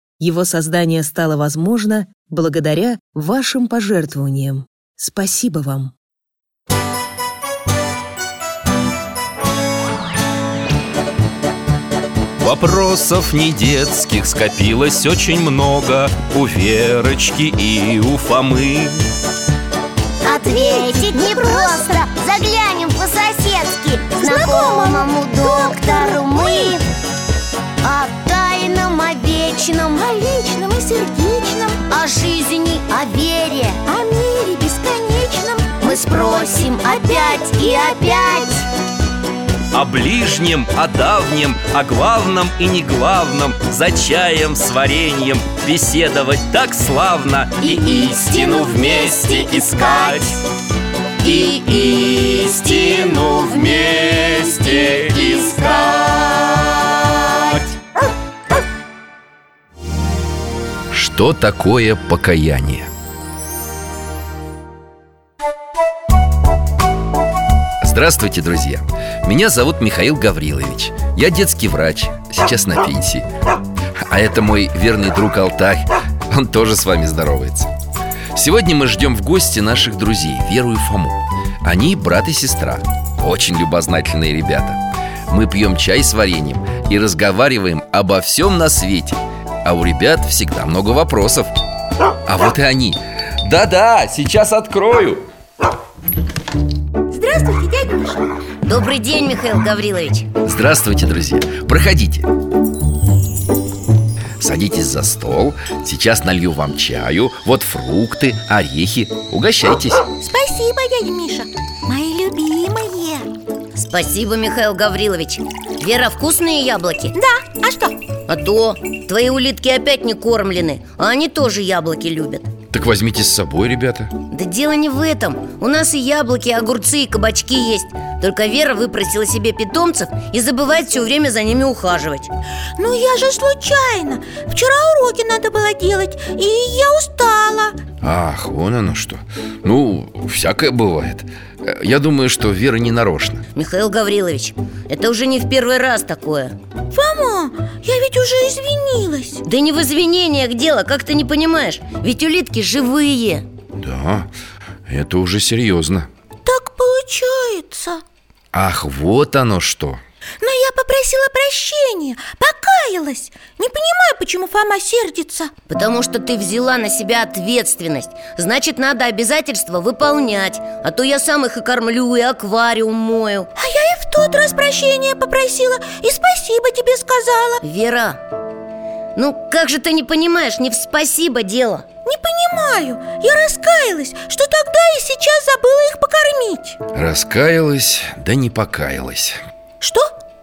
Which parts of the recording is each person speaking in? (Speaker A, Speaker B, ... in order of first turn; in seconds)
Speaker A: 0.2-5.9
Speaker B: 12.4-19.1, 39.7-50.4, 51.2-56.9, 60.9-62.9, 67.8-73.3, 74.0-77.7, 78.3-91.5, 92.2-95.3, 100.4-102.3, 104.4-110.0, 122.7-124.1, 138.0-143.4, 153.8-154.3, 154.9-156.1, 158.5-160.0, 186.9-189.4
Speaker C: 20.2-26.8, 27.8-30.0, 31.9-33.8, 35.8-38.6, 98.6-100.3, 113.8-117.1, 118.3-122.5, 124.3-132.3, 143.5-146.6, 149.4-153.4, 165.7-173.5, 177.6-178.2, 179.2-181.8
Speaker D: 20.2-22.0, 24.2-26.8, 29.9-31.8, 33.9-38.4, 97.1-98.2, 110.2-113.3, 117.1-118.0, 132.8-137.8, 146.9-149.4, 156.4-158.0, 160.4-165.5, 173.6-177.6, 182.1-186.8, 189.8-190.1